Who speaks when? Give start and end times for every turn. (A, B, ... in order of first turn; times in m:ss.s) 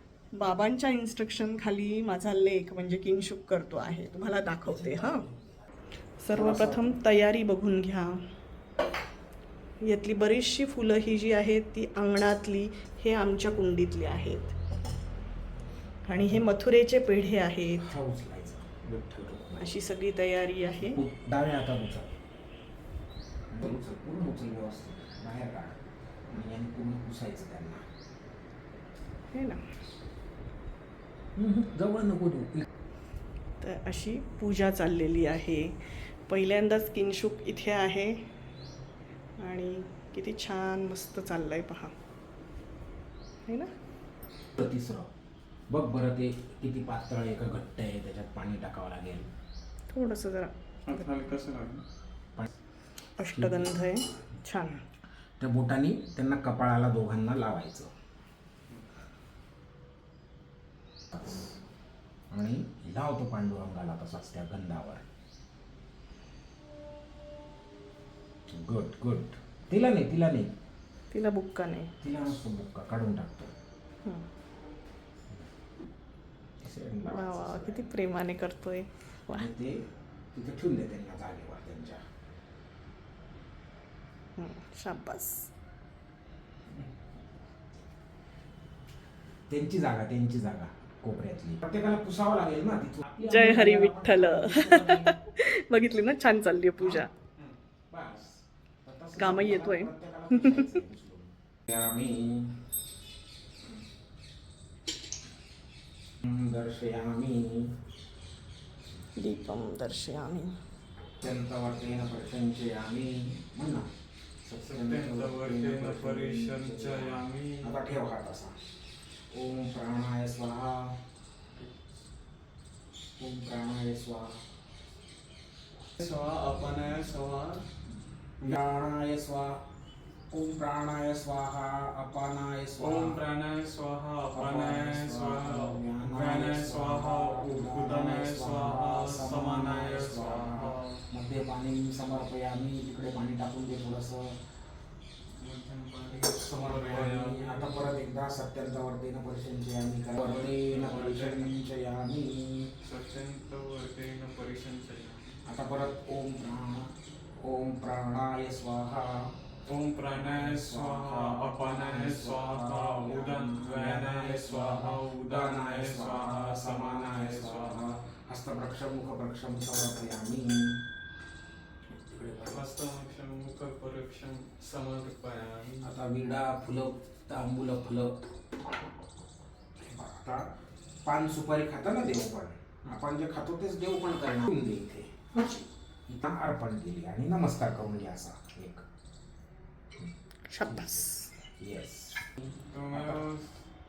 0:00.3-0:05.2 A
0:04.7-0:05.4 B
0:06.2-0:08.2 A
0:06.3-0:06.9 B
0:09.8-0:14.6 A
0:16.1-0:17.9 A
0:17.8-0:19.8 B
0:19.6-0:21.0 A
0:20.8-0:22.2 B
0:23.5-0:25.8 B
0:26.3-0:27.9 B
0:29.3-0:29.6 A
0:31.4-0:32.6 B
0:33.6-0:38.2 A
0:39.4-0:41.9 A
0:43.4-0:43.7 A
0:44.6-0:45.1 B
0:45.7-0:49.3 B
0:49.9-0:51.1 A
0:50.8-0:51.8 C
0:53.2-0:54.8 A
0:53.3-0:53.8 B
0:55.4-0:57.9 B
1:01.1-1:01.5 B
1:02.3-1:05.0 B
1:08.5-1:10.5 B
1:11.1-1:11.9 A
1:12.0-1:13.5 B
1:16.6-1:17.9 B
1:17.1-1:19.5 A
1:19.3-1:22.0 B
1:24.4-1:25.5 A
1:29.5-1:35.2 B
1:33.2-1:37.1 A
1:37.9-1:42.5 B
1:39.2-1:40.8 A
1:46.2-1:47.8 B
1:49.2-1:50.6 A
1:51.2-1:53.9 B
1:54.4-1:58.6 B
1:54.6-1:58.0 C
1:59.3-2:01.0 B
2:03.2-2:04.4 B
2:06.0-2:07.6 C
2:08.4-2:09.6 B
2:10.3-2:13.2 B
2:12.8-2:21.0 C
2:14.3-2:24.3 B
2:25.4-2:28.0 C
2:26.1-2:32.7 B
2:30.2-2:31.6 C
2:32.8-2:35.3 C
2:35.4-2:39.2 B
2:39.7-2:47.9 C
2:40.1-2:50.8 B
2:52.0-2:52.7 B
2:52.4-2:55.9 C
2:55.8-2:58.1 B
2:59.8-3:00.4 B
3:01.0-3:08.8 B
3:10.5-3:11.3 A
3:10.7-3:11.0 B
3:11.6-3:13.2 B
3:12.7-3:13.5 C